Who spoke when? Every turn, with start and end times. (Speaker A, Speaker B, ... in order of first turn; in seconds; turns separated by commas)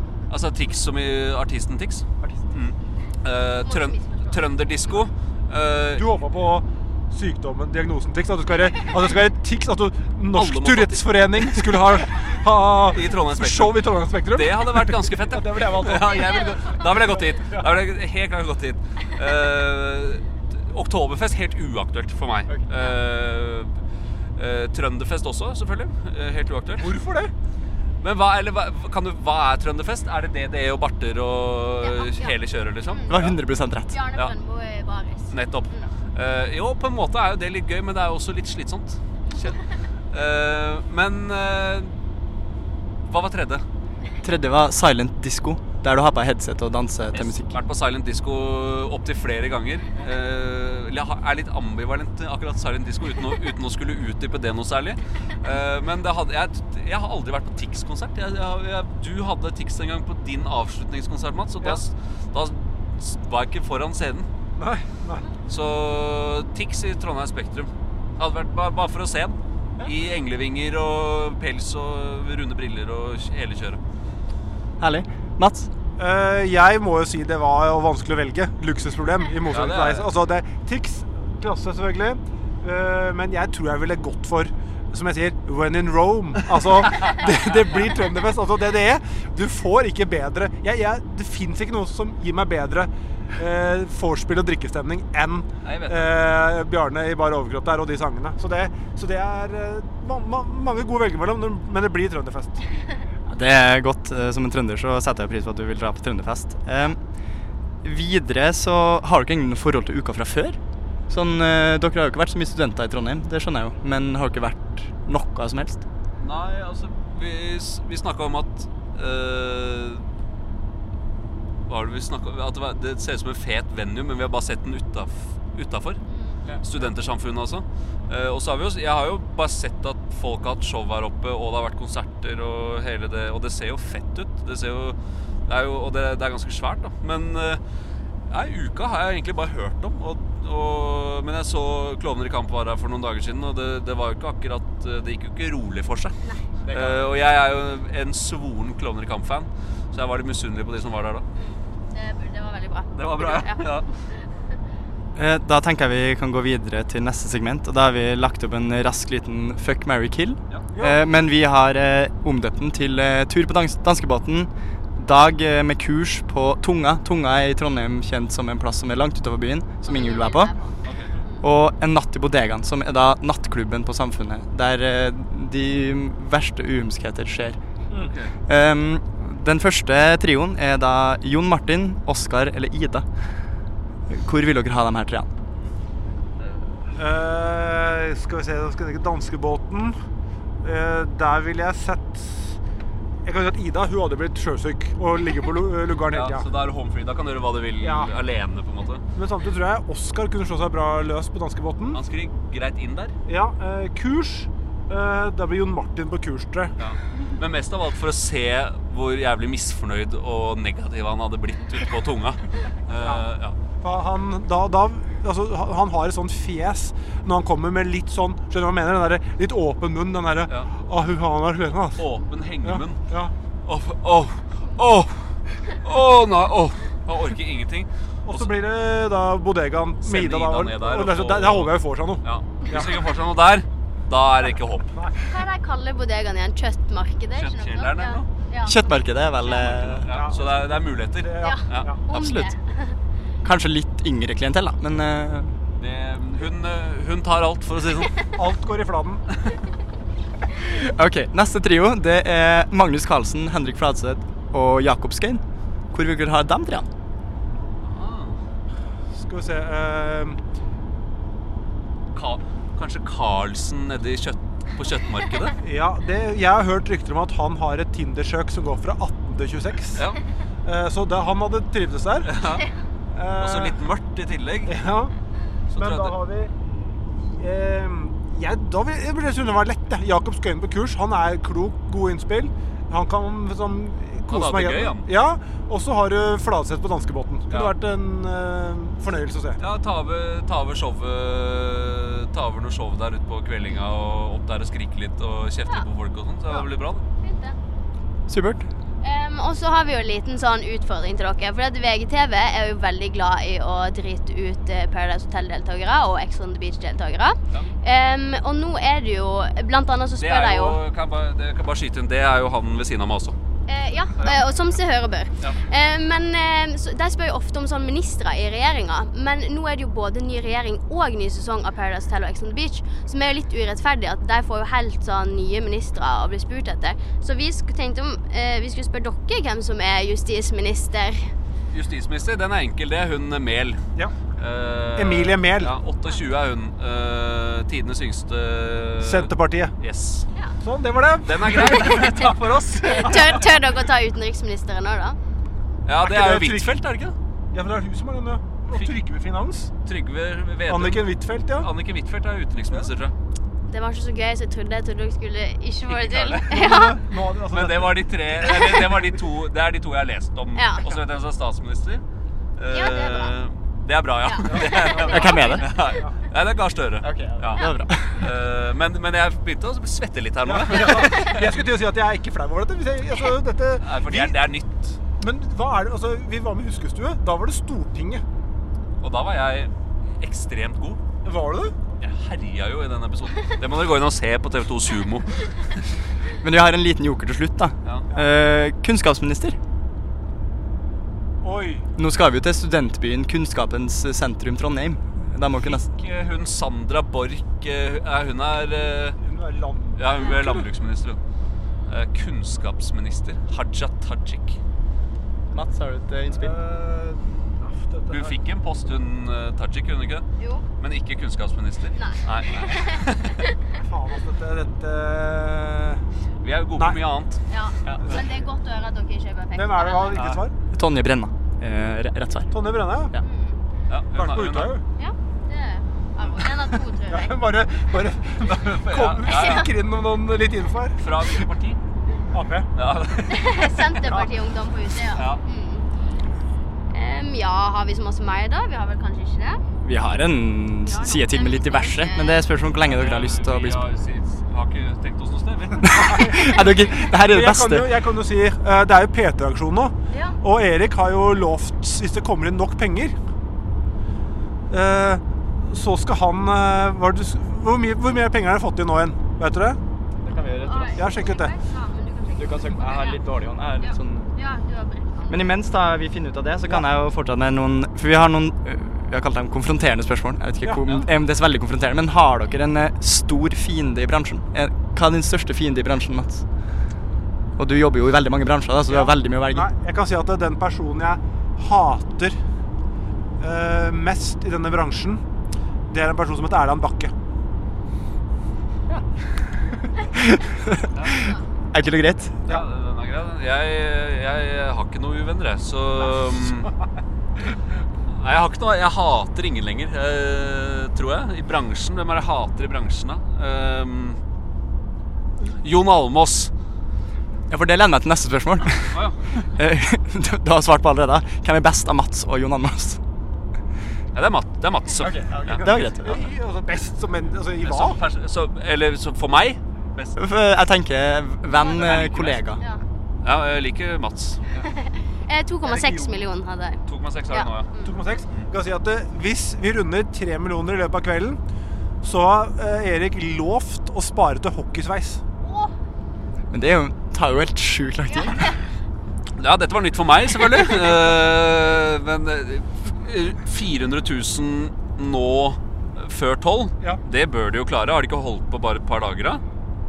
Speaker A: 0.3-6.0, Speaker B: 3.6-4.5, Speaker C: 6.0-16.6, Speaker A: 10.3-11.8, Speaker A: 12.9-23.8, Speaker A: 24.4-26.9, Speaker C: 26.8-27.3, Speaker A: 28.0-33.3, Speaker B: 31.8-32.3, Speaker B: 32.9-33.2, Speaker D: 33.1-33.9, Speaker B: 33.9-35.9, Speaker A: 35.3-42.0, Speaker A: 43.0-43.6, Speaker D: 44.2-47.6, Speaker A: 47.1-64.3, Speaker C: 64.6-65.3, Speaker A: 65.5-73.8, Speaker D: 74.8-75.7, Speaker C: 76.0-102.6, Speaker A: 79.5-80.0, Speaker A: 95.6-96.2, Speaker D: 103.3-107.0, Speaker D: 107.8-110.6, Speaker D: 111.1-115.8, Speaker A: 116.2-120.0, Speaker A: 121.7-126.0, Speaker B: 126.1-126.4, Speaker A: 126.6-137.6, Speaker A: 138.3-146.1, Speaker D: 146.7-147.1, Speaker A: 146.7-151.2, Speaker B: 151.3-153.8, Speaker A: 152.9-153.8, Speaker D: 155.2-170.5, Speaker C: 160.7-161.0, Speaker B: 169.8-171.4, Speaker A: 170.8-171.1, Speaker D: 171.4-177.6, Speaker A: 178.0-178.3, Speaker D: 178.5-183.1, Speaker D: 184.1-185.3, Speaker C: 186.9-189.9, Speaker C: 190.6-192.6, Speaker C: 193.2-196.5, Speaker A: 196.1-199.0, Speaker C: 197.8-198.1, Speaker C: 199.1-202.0, Speaker A: 201.9-203.1, Speaker C: 203.2-206.7, Speaker A: 206.8-213.6, Speaker C: 213.8-222.0, Speaker A: 221.9-223.0, Speaker C: 222.6-223.3, Speaker A: 223.6-228.5, Speaker C: 228.2-232.9, Speaker A: 230.0-234.9, Speaker C: 234.9-235.3, Speaker B: 235.2-238.9, Speaker A: 237.3-238.3, Speaker D: 238.6-240.1, Speaker B: 239.4-239.7, Speaker A: 239.7-241.9, Speaker C: 240.1-242.0, Speaker B: 241.4-243.0, Speaker D: 242.1-242.5, Speaker D: 243.4-245.5, Speaker A: 245.8-248.2, Speaker C: 248.3-249.2, Speaker D: 250.5-256.9, Speaker A: 257.8-258.4, Speaker C: 259.1-260.4, Speaker A: 262.1-265.6, Speaker C: 265.6-270.0, Speaker C: 270.6-272.3, Speaker A: 272.2-272.7, Speaker C: 273.1-273.8, Speaker A: 273.4-274.7, Speaker C: 274.7-275.1, Speaker A: 275.7-276.1, Speaker C: 275.8-276.5, Speaker C: 277.2-289.6, Speaker A: 284.3-285.1, Speaker A: 289.6-297.0, Speaker B: 297.2-297.6, Speaker D: 298.3-298.6, Speaker B: 299.0-310.8, Speaker A: 310.2-313.4, Speaker B: 313.7-331.3, Speaker A: 331.7-333.8, Speaker A: 334.4-340.2, Speaker C: 334.9-335.7, Speaker C: 339.0-339.7, Speaker C: 340.6-342.0, Speaker A: 341.2-343.4, Speaker B: 341.6-342.0, Speaker B: 342.8-345.2, Speaker A: 345.8-347.1, Speaker C: 346.0-346.8, Speaker C: 347.5-349.7, Speaker A: 348.7-348.9, Speaker A: 349.8-353.1, Speaker C: 350.7-351.7, Speaker B: 353.7-357.0, Speaker A: 355.9-356.8, Speaker C: 356.4-358.9, Speaker A: 357.5-362.0, Speaker B: 360.6-360.9, Speaker A: 362.6-371.4, Speaker B: 362.7-363.3, Speaker B: 364.2-365.9, Speaker C: 364.5-366.1, Speaker D: 365.1-365.6, Speaker D: 367.0-368.2, Speaker C: 370.4-374.4, Speaker A: 373.8-375.0, Speaker C: 375.2-378.2, Speaker A: 379.0-381.0, Speaker C: 381.2-381.7, Speaker A: 382.0-385.5, Speaker D: 386.4-389.6, Speaker C: 391.4-391.9, Speaker D: 391.9-395.9, Speaker A: 395.5-399.2, Speaker C: 399.1-400.6, Speaker A: 400.0-401.2, Speaker A: 401.9-404.6, Speaker D: 405.5-406.5, Speaker C: 406.3-408.4, Speaker A: 408.1-410.2, Speaker B: 410.4-410.6, Speaker A: 410.8-413.4, Speaker B: 411.9-413.6, Speaker C: 413.7-416.0, Speaker A: 416.4-418.0, Speaker B: 417.5-420.2, Speaker C: 418.0-418.3, Speaker C: 419.5-420.5, Speaker D: 420.2-422.5, Speaker C: 422.5-423.1, Speaker B: 423.2-423.6, Speaker A: 423.9-424.7, Speaker C: 424.1-424.8, Speaker B: 425.0-427.4, Speaker C: 427.1-431.0, Speaker A: 428.4-429.6, Speaker B: 429.2-429.7, Speaker A: 431.0-431.8, Speaker C: 432.3-432.7, Speaker A: 432.7-433.9, Speaker B: 433.3-435.9, Speaker C: 434.1-434.3, Speaker A: 435.1-435.4, Speaker B: 436.9-439.6, Speaker D: 439.8-443.8, Speaker B: 440.8-442.5, Speaker A: 442.8-445.9, Speaker D: 445.8-447.9, Speaker C: 445.9-446.6, Speaker C: 447.2-453.1, Speaker B: 450.1-450.4, Speaker C: 454.7-459.8, Speaker D: 460.2-461.1, Speaker B: 460.6-463.2, Speaker C: 460.9-461.5, Speaker D: 462.4-464.3, Speaker B: 463.8-465.6, Speaker D: 465.3-476.4, Speaker D: 477.6-479.6, Speaker C: 478.9-482.4, Speaker C: 483.4-485.2, Speaker C: 485.9-487.1, Speaker D: 490.1-492.4, Speaker A: 490.9-491.2, Speaker A: 492.4-496.7, Speaker A: 498.1-504.2, Speaker A: 505.4-506.5, Speaker D: 507.5-513.0, Speaker A: 508.9-509.2, Speaker A: 514.1-515.6, Speaker D: 515.0-516.2, Speaker C: 515.0-518.0, Speaker A: 517.6-520.2, Speaker D: 520.1-522.6, Speaker B: 521.5-522.0, Speaker A: 521.7-522.4, Speaker B: 522.6-522.8, Speaker A: 523.2-524.4, Speaker B: 524.5-528.0, Speaker C: 525.6-526.2, Speaker A: 526.9-527.7, Speaker C: 527.8-531.4, Speaker C: 532.0-535.2, Speaker B: 535.4-535.7, Speaker D: 536.5-538.6, Speaker B: 538.1-538.6, Speaker A: 539.4-549.4